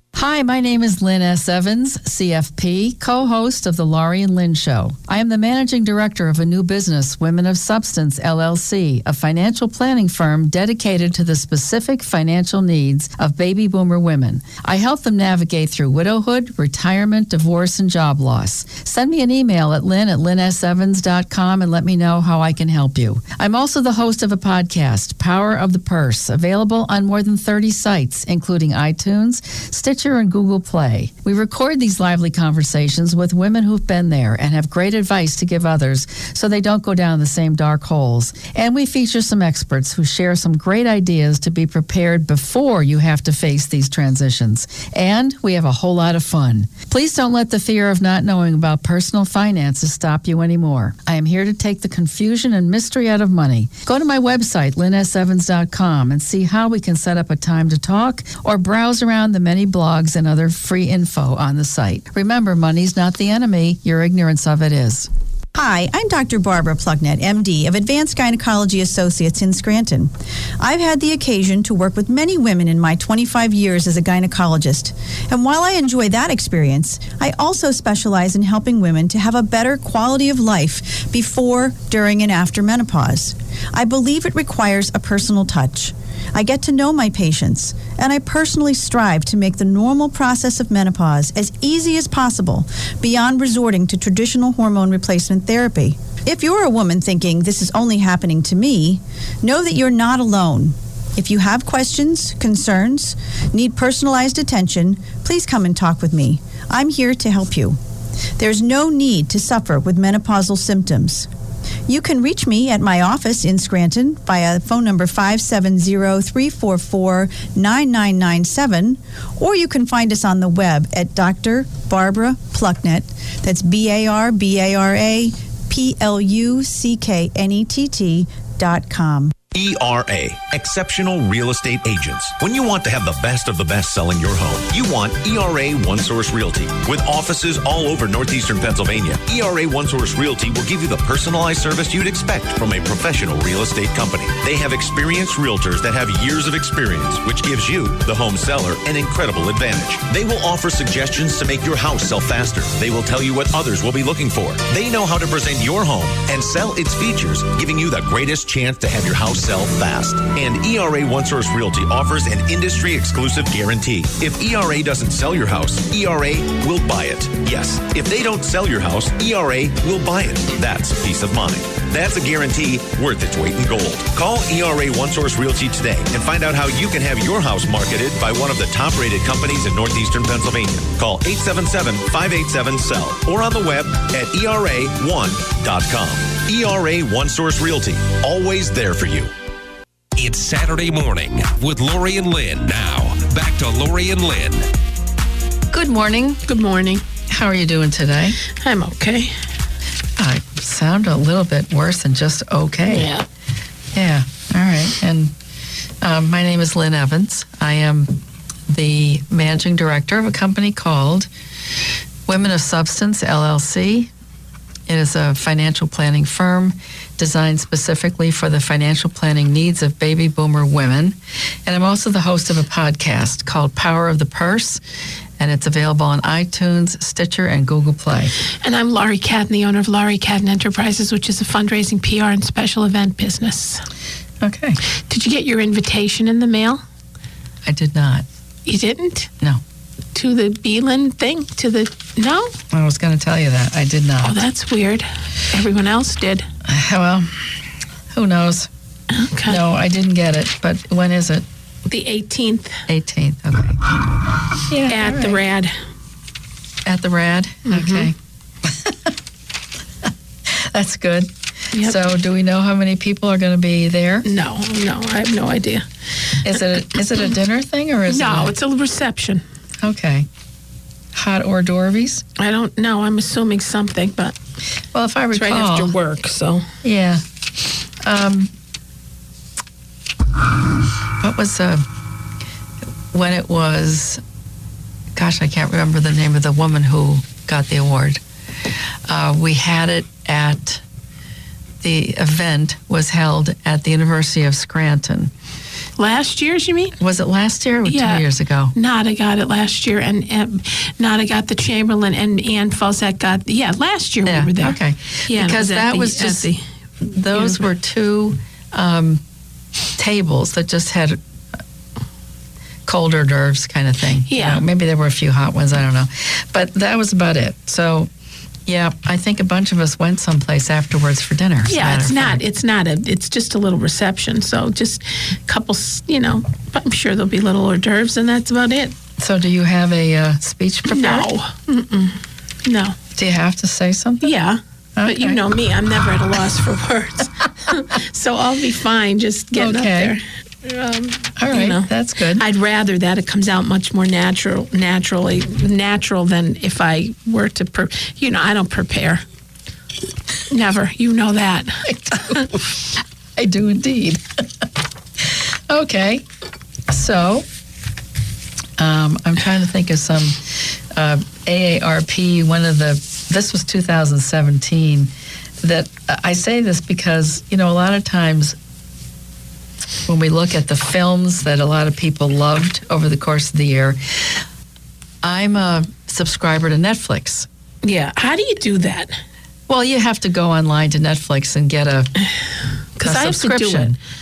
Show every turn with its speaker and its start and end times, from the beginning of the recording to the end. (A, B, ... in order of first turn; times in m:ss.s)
0:00.1-1:05.1 A
1:05.5-1:47.8 B
1:48.4-1:51.3 B
1:51.9-2:09.3 B
2:09.5-3:09.3 C
3:10.2-3:14.6 D
3:15.7-3:16.4 A
3:16.4-3:17.0 E
3:17.3-3:18.4 A
3:18.5-3:19.4 E
3:20.2-3:23.1 A
3:22.9-3:23.2 E
3:23.9-3:25.3 A
3:26.0-3:31.3 A
3:32.3-3:34.1 A
3:34.9-3:44.8 A
3:45.4-3:48.3 A
3:48.6-3:53.8 E
3:54.4-3:54.8 A
3:55.1-3:56.8 E
3:57.6-3:58.2 A
3:58.6-3:59.3 E
4:00.1-4:02.6 E
4:02.7-4:04.4 A
4:04.2-4:06.5 E
4:06.6-4:07.5 A
4:08.1-4:08.7 A
4:09.1-4:09.6 E
4:09.5-4:11.4 A
4:11.8-4:12.8 E
4:12.9-4:13.9 A
4:14.7-4:15.4 A
4:14.9-4:15.7 E
4:16.8-4:19.1 A
4:17.6-4:18.1 E
4:20.7-4:24.2 A
4:21.7-4:22.0 E
4:24.2-4:25.9 E
4:26.4-4:28.5 A
4:28.1-4:29.4 E
4:29.8-4:30.3 A
4:31.1-4:32.2 A
4:32.4-4:34.4 E
4:34.9-4:35.9 A
4:35.3-4:36.7 E
4:36.8-4:37.2 A
4:38.0-4:38.5 A
4:41.2-4:41.8 A
4:43.1-4:44.2 A
4:45.2-4:48.2 A
4:49.1-4:50.8 A
4:51.8-4:55.3 A
4:56.0-4:56.9 E
4:57.0-4:58.7 A
4:57.8-5:04.8 E
5:04.2-5:06.5 A
5:05.3-5:06.6 E
5:07.0-5:09.2 A
5:07.3-5:07.6 E
5:10.0-5:11.2 A
5:12.8-5:18.1 A
5:14.3-5:14.6 E
5:18.7-5:22.4 A
5:21.7-5:29.0 E
5:29.2-5:31.3 A
5:30.9-5:33.0 E
5:33.1-5:34.3 A
5:34.2-5:49.2 E
5:35.0-5:35.4 A
5:39.5-5:40.2 A
5:41.4-5:42.4 A
5:50.5-5:52.6 E
5:51.9-5:52.4 A
5:53.4-5:54.4 A
5:55.2-5:56.2 A
5:56.9-5:57.4 A
5:58.8-6:05.1 A
6:05.6-6:08.6 A
6:10.0-6:14.0 A
6:15.2-6:17.4 A
6:17.8-6:19.2 E
6:19.7-6:22.1 A
6:23.0-6:24.0 E
6:23.0-6:24.0 A